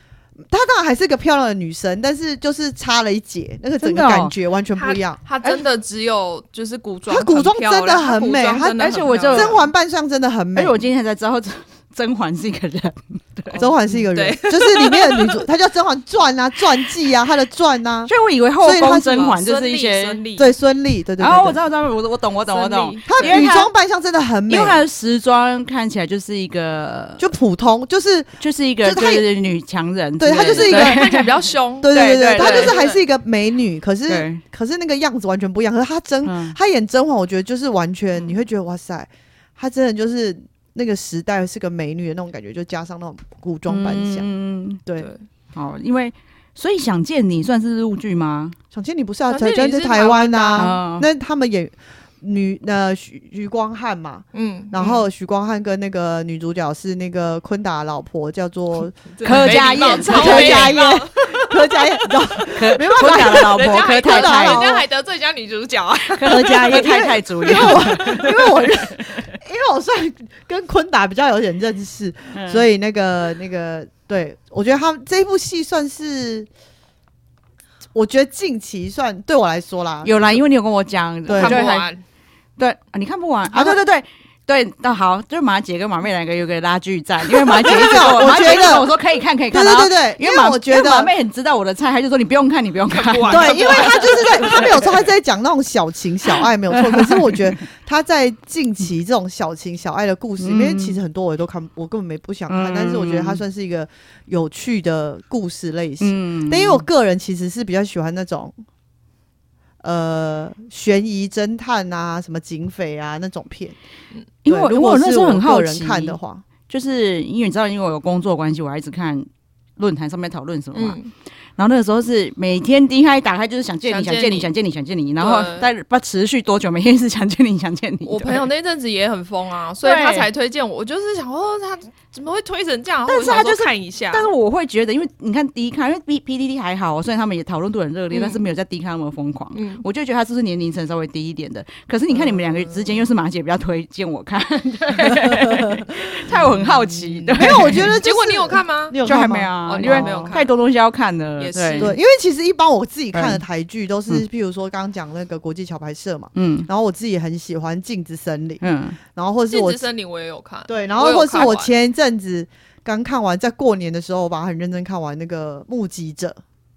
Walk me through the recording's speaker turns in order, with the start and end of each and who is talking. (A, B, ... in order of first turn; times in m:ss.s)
0:00.4-0:05.6 A
0:03.8-0:04.3 B
0:04.8-0:09.6 C
0:07.1-0:10.7 A
0:08.8-0:09.5 B
0:10.5-0:13.6 B
0:13.5-0:15.4 C
0:13.6-0:19.3 A
0:18.1-0:20.2 B
0:19.0-0:20.5 C
0:20.4-0:21.6 A
0:21.2-0:23.7 B
0:22.5-0:23.4 C
0:23.1-0:24.8 A
0:24.5-0:27.3 B
0:27.2-0:29.3 A
0:28.4-0:32.8 B
0:30.2-0:31.2 A
0:30.4-0:33.0 C
0:31.8-0:44.2 A
0:34.1-0:34.4 B
0:36.2-0:36.6 B
0:43.7-0:44.8 B
0:45.0-0:45.2 C
0:45.5-0:48.6 B
0:48.7-1:04.8 A
0:49.3-0:50.8 C
0:50.6-0:51.1 B
0:54.3-0:55.0 C
0:59.2-1:08.4 C
0:59.2-1:00.7 B
1:02.5-1:04.7 B
1:06.1-1:09.1 B
1:06.6-1:16.5 A
1:12.3-1:12.6 B
1:17.9-1:20.4 A
1:20.0-1:21.9 B
1:21.3-1:21.6 A
1:21.4-1:22.0 C
1:22.6-1:34.8 B
1:23.5-1:23.8 A
1:27.3-1:28.9 A
1:29.5-1:31.1 A
1:32.9-1:35.0 C
1:33.3-1:48.5 A
1:36.7-1:37.4 B
1:40.4-1:41.0 B
1:42.5-1:43.4 B
1:46.0-1:46.8 B
1:49.8-1:53.8 A
1:54.4-1:56.2 B
1:54.5-1:56.4 A
1:56.7-2:01.0 B
2:00.7-2:01.1 C
2:01.6-2:08.4 B
2:03.9-2:04.5 C
2:05.2-2:05.7 C
2:08.0-2:14.3 C
2:09.8-2:10.3 B
2:13.1-2:27.9 B
2:18.1-2:18.4 C
2:19.5-2:19.8 C
2:25.1-2:25.6 A
2:26.3-2:29.0 C
2:27.4-2:30.4 A
2:29.0-2:31.9 B
2:29.6-2:30.5 C
2:31.4-2:32.0 C
2:31.8-2:38.6 A
2:33.1-2:33.4 B
2:36.3-2:36.7 B
2:38.6-2:39.0 B
2:39.1-2:39.9 A
2:39.5-2:41.7 C
2:40.7-2:46.4 A